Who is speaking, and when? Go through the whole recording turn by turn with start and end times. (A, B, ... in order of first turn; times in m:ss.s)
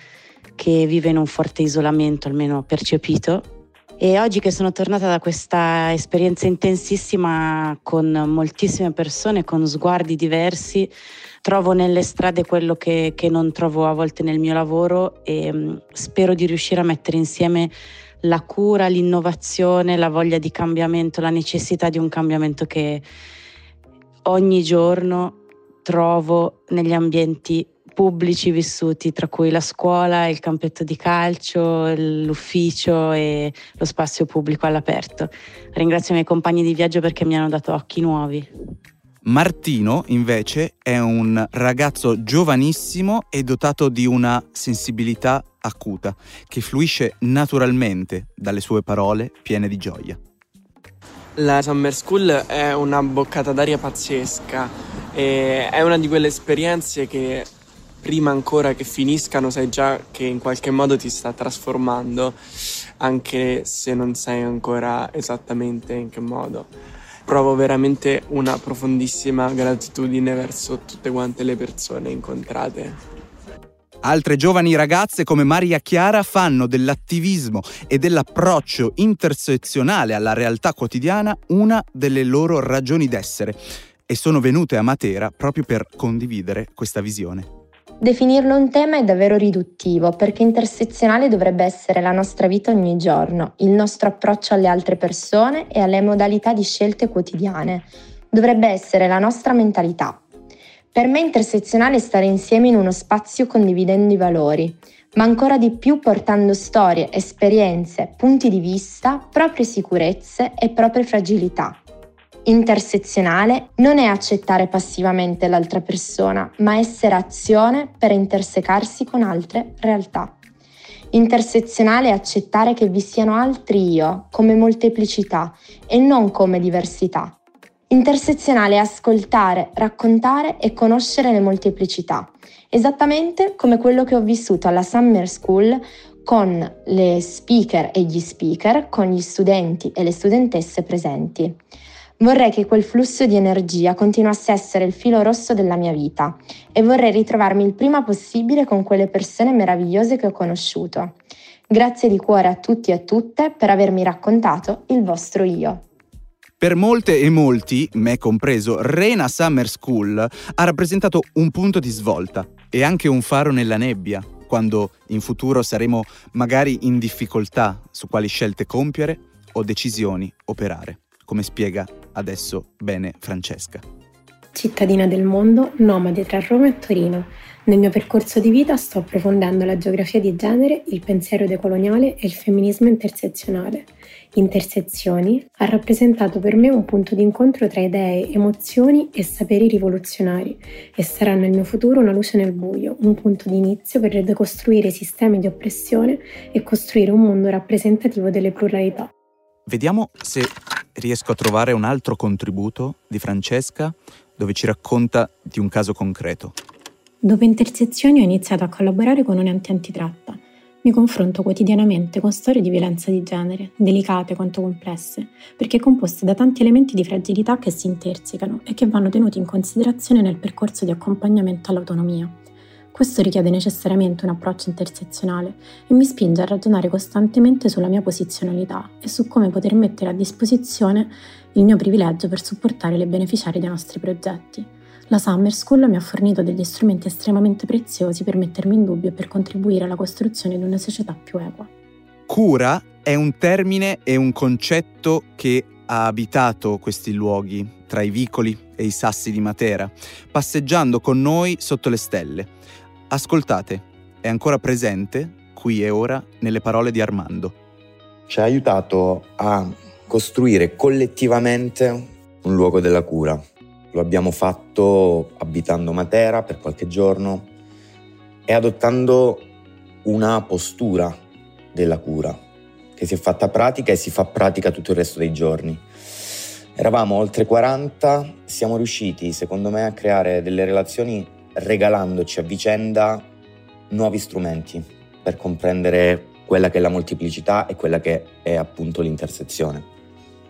0:00.6-0:03.5 A
0:04.0-0:23.0 A
0:24.2-0:38.5 A
0:39.2-0:50.2 B
0:51.4-0:57.5 C
0:58.0-1:02.4 C
1:03.0-1:06.7 C
1:07.2-1:13.0 C
1:14.0-1:27.5 B
1:28.0-1:40.2 D
1:40.9-1:51.8 D
1:52.4-2:00.3 D
2:01.1-2:07.4 D
2:07.9-2:21.6 D
2:22.2-2:31.1 D
2:31.7-2:35.8 D
2:36.6-2:53.8 B
2:54.5-3:19.1 E
3:19.7-3:26.6 B
3:27.2-3:42.4 E
3:42.9-4:01.7 E
4:02.3-4:12.5 B
4:13.1-4:17.6 B
4:18.3-4:23.4 F
4:23.9-4:27.5 F
4:28.5-4:29.5 F
4:30.0-4:31.2 F
4:31.7-4:32.4 F
4:33.0-4:35.8 F
4:36.8-4:43.3 F
4:43.9-4:49.8 F